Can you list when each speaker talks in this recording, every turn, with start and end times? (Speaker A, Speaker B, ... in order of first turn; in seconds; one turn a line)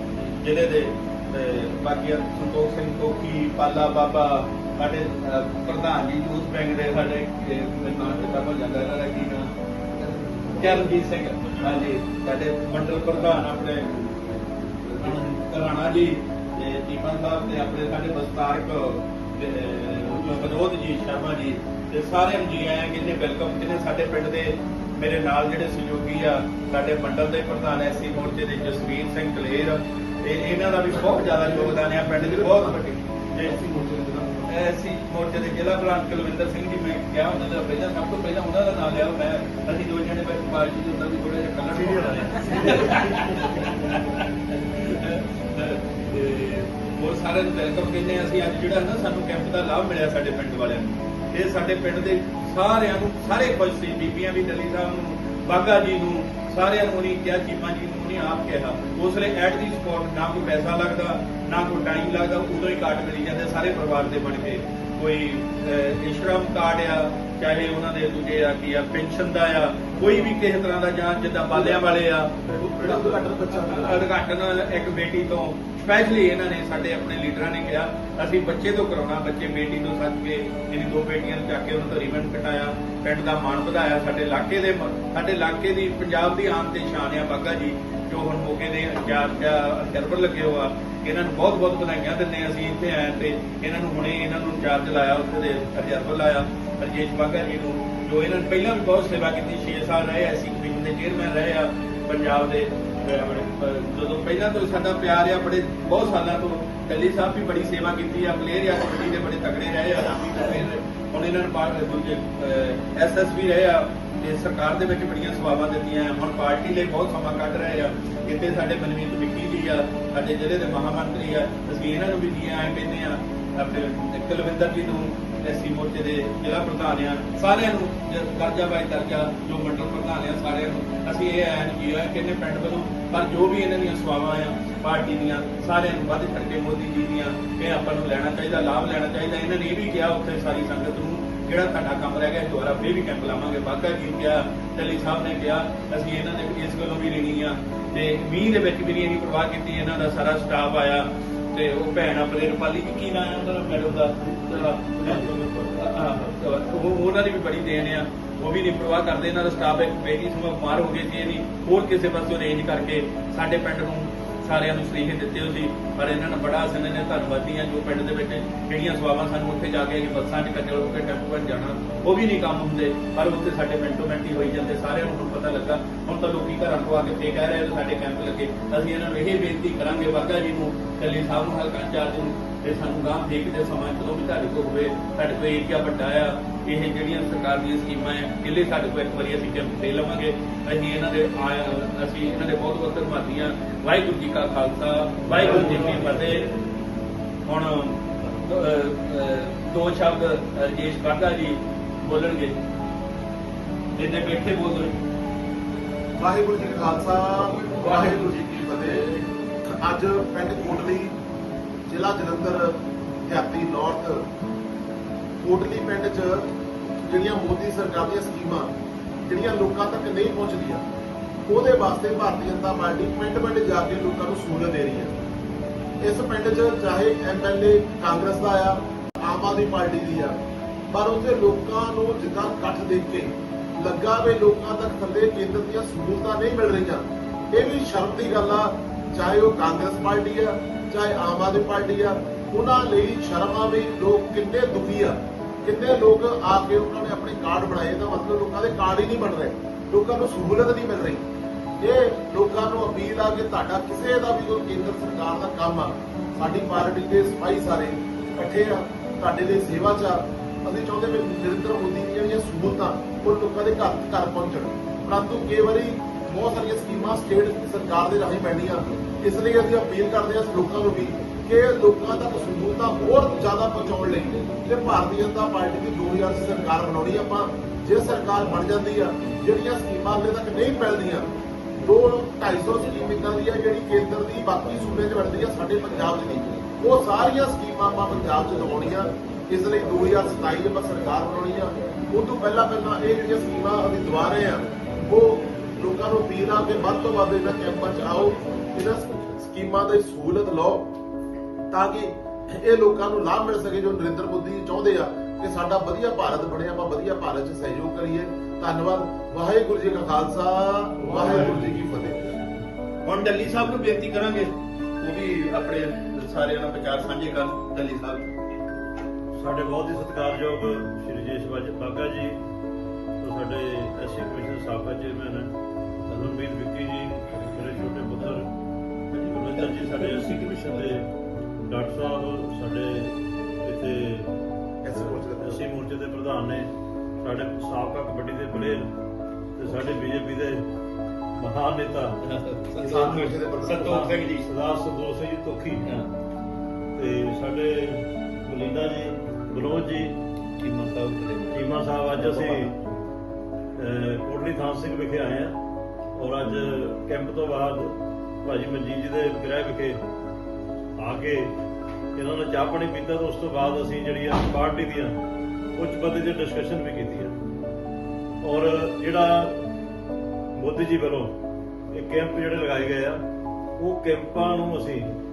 Speaker A: 0.2-9.5
Speaker A: 10.4-33.6
Speaker B: 30.9-32.7
Speaker B: 33.5-34.2
Speaker A: 34.4-196.4
Speaker C: 41.7-43.6
Speaker B: 71.5-71.9
Speaker B: 72.5-74.0
Speaker C: 155.0-155.8
Speaker C: 195.3-196.1
Speaker A: 197.4-202.6
Speaker A: 203.9-205.0
Speaker B: 206.2-209.0
Speaker A: 207.4-209.2
Speaker B: 209.7-211.1
Speaker B: 211.8-214.2
Speaker B: 215.4-216.5
Speaker B: 217.0-218.7
Speaker B: 219.2-220.8
Speaker B: 221.4-225.1
Speaker B: 226.0-230.3
Speaker B: 230.9-251.2
Speaker B: 251.8-281.3
Speaker B: 281.8-300.9
Speaker B: 301.7-312.4
Speaker A: 311.1-311.6
Speaker A: 313.0-318.2
Speaker C: 319.4-322.4
Speaker C: 323.2-325.5
Speaker C: 326.1-328.5
Speaker C: 329.1-331.1
Speaker A: 329.5-330.8
Speaker C: 331.6-334.3
Speaker B: 334.8-335.6
Speaker C: 334.9-338.9
Speaker C: 339.6-340.6
Speaker C: 341.4-342.2
Speaker A: 342.2-344.4
Speaker B: 342.8-343.9
Speaker C: 343.8-345.9
Speaker A: 345.8-346.1
Speaker C: 346.9-350.2
Speaker A: 350.6-352.8
Speaker C: 351.5-352.8
Speaker C: 353.7-355.6
Speaker C: 356.1-360.0
Speaker C: 361.0-361.6
Speaker C: 362.1-365.2
Speaker C: 365.8-367.3
Speaker C: 368.4-369.7
Speaker C: 370.6-371.4
Speaker C: 371.9-373.2
Speaker C: 373.8-375.1